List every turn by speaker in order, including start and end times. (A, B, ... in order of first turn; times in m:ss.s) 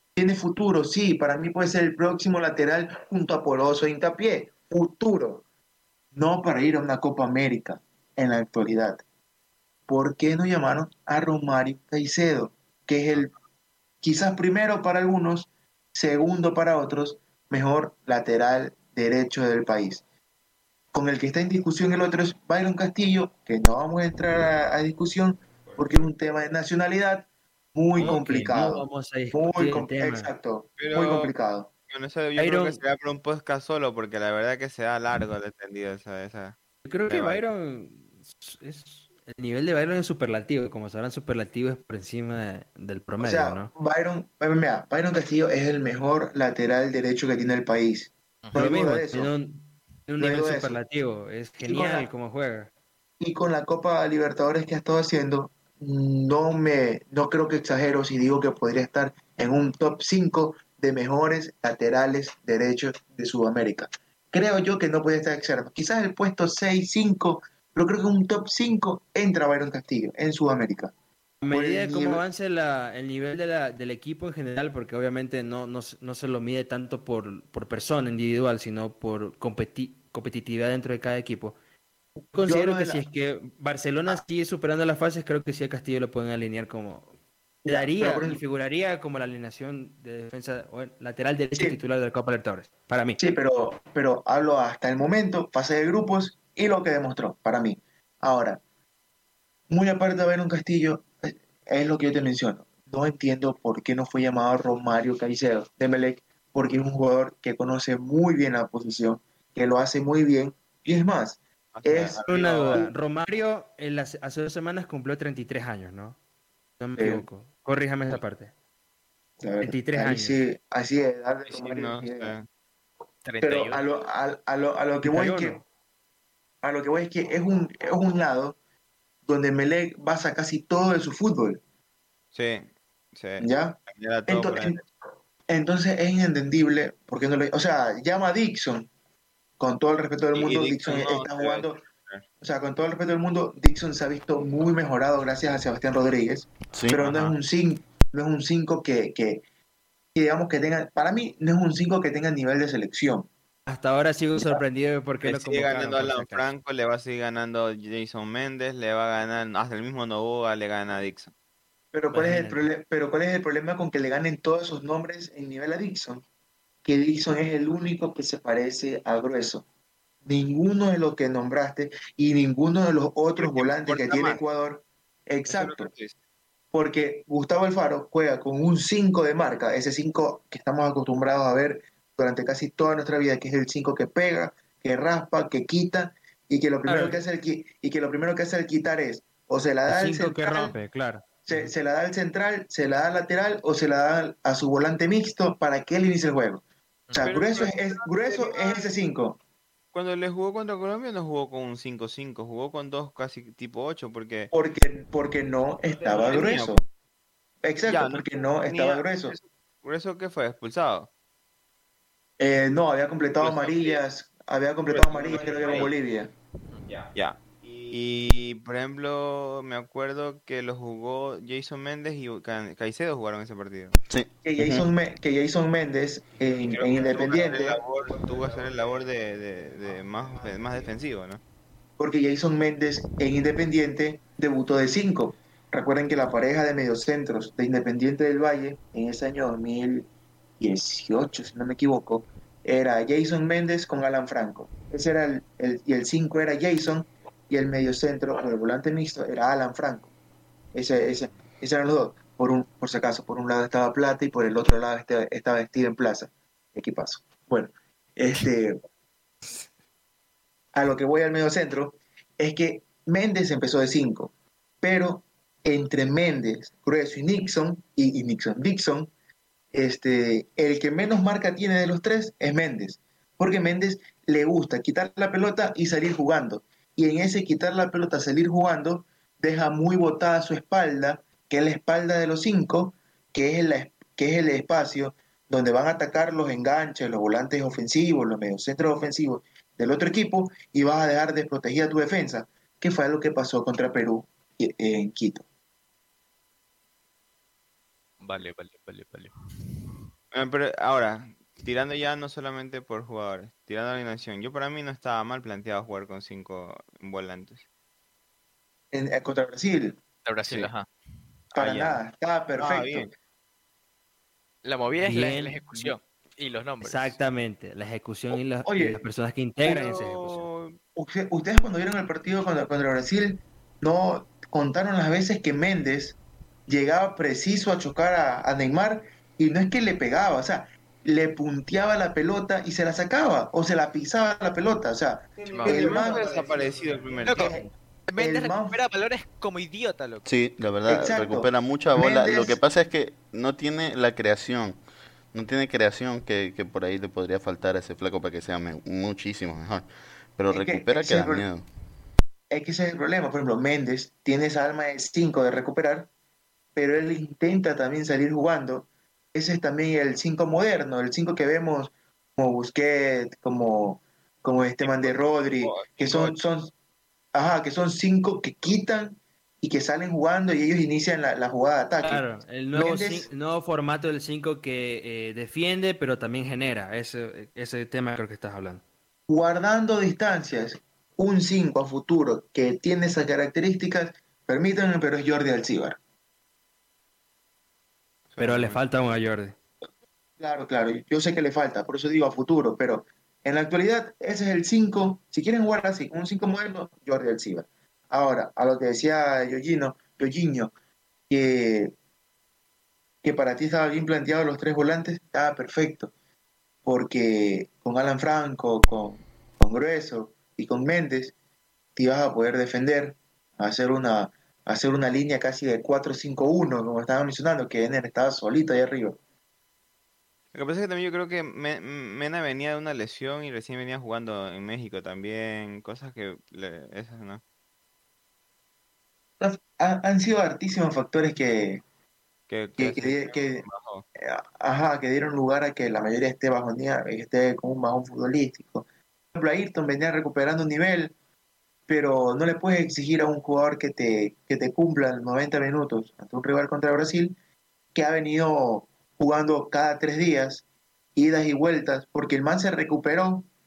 0:00.2-0:05.4 A
0:06.1-0:09.0 A
0:09.9-0:13.3 A
0:14.0-0:20.0 A
0:20.9-0:31.7 A
0:25.6-0:26.1 B
0:28.0-0:30.3 C
0:30.8-0:31.3 B
0:31.9-0:36.6 B
0:32.4-0:32.8 C
0:36.8-0:43.7 C
0:37.1-0:37.4 B
0:43.2-0:49.3 A
0:48.5-0:52.7 C
0:50.2-0:50.8 A
0:51.6-0:52.1 A
0:53.2-1:10.9 A
1:11.4-1:21.5 C
1:11.5-1:12.2 A
1:22.2-1:27.1 C
1:22.4-1:23.0 A
1:27.6-1:28.4 A
1:27.7-1:33.2 C
1:33.2-1:38.6 A
1:39.7-1:52.9 A
1:51.7-1:52.8 B
1:52.2-1:56.2 C
1:56.8-1:58.5 C
1:57.0-1:57.2 A
1:59.4-2:02.4 A
1:59.6-2:00.4 C
2:01.5-2:02.5 B
2:03.2-2:03.8 D
2:03.4-2:05.6 A
2:05.0-2:05.6 C
2:06.6-2:08.6 A
2:09.2-2:11.6 A
2:12.3-2:14.8 B
2:13.4-2:13.8 A
2:14.3-2:14.8 A
2:15.5-2:18.9 A
2:19.6-2:21.8 A
2:20.3-2:22.2 B
2:22.4-2:29.4 A
2:26.7-2:27.1 E
2:30.1-2:33.3 A
2:33.6-2:36.5 C
2:35.2-2:41.3 B
2:41.9-2:46.2 A
2:42.1-2:42.7 C
2:46.8-2:49.6 A
2:50.2-2:55.9 A
2:53.4-2:54.4 B
2:55.5-2:56.1 B
2:56.7-3:10.8 A
3:06.9-3:07.2 C
3:09.9-3:11.7 C
3:11.4-3:16.6 A
3:17.1-3:17.3 D
3:17.1-3:19.4 A
3:17.2-3:18.9 B
3:19.9-3:24.5 B
3:24.5-3:26.8 A
3:25.9-3:26.8 B
3:27.6-3:29.4 A
3:27.8-3:31.1 B
3:32.4-3:36.3 A
3:33.4-3:34.0 B
3:34.9-3:35.9 B
3:36.9-3:44.0 B
3:44.1-3:44.9 E
3:44.4-3:47.8 A
3:46.7-3:51.4 B
3:52.0-4:00.1 A
4:00.6-4:10.1 A
4:10.7-4:18.8 A
4:20.7-4:24.3 A
4:24.8-4:29.1 A
4:29.7-4:55.4 A
4:58.2-4:59.3 D
5:00.3-5:07.6 B
5:08.9-5:10.0 A
5:10.2-5:10.9 D
5:11.5-5:12.0 B
5:11.5-5:13.1 A
5:12.6-5:13.1 B
5:14.6-5:17.2 D
5:15.0-5:15.9 C
5:16.8-5:20.4 C
5:18.6-5:19.0 A
5:19.6-5:20.8 B
5:21.0-5:36.7 A
5:35.4-5:37.6 B
5:35.5-5:36.0 D
5:37.2-5:40.2 D
5:37.3-5:38.8 A
5:40.2-5:44.8 E
5:40.9-5:42.6 A
5:45.3-5:51.6 E
5:50.5-5:51.4 A
5:52.5-5:56.1 A
5:56.8-6:06.7 A
6:04.8-6:06.4 B
6:07.3-6:13.3 A
6:12.0-6:18.8 C
6:19.3-6:26.0 A
6:28.3-6:28.8 B
6:28.4-6:29.5 C
6:30.4-6:40.7 A
6:41.3-6:41.9 A
6:43.2-6:46.1 A
6:46.8-6:51.3 A
6:52.0-6:59.2 A
7:00.5-7:07.4 B
7:09.4-7:11.8 A
7:12.5-7:14.0 B
7:12.8-7:13.6 A
7:14.2-7:21.1 A
7:21.9-7:27.3 A
7:27.9-7:30.6 A
7:31.2-7:33.5 A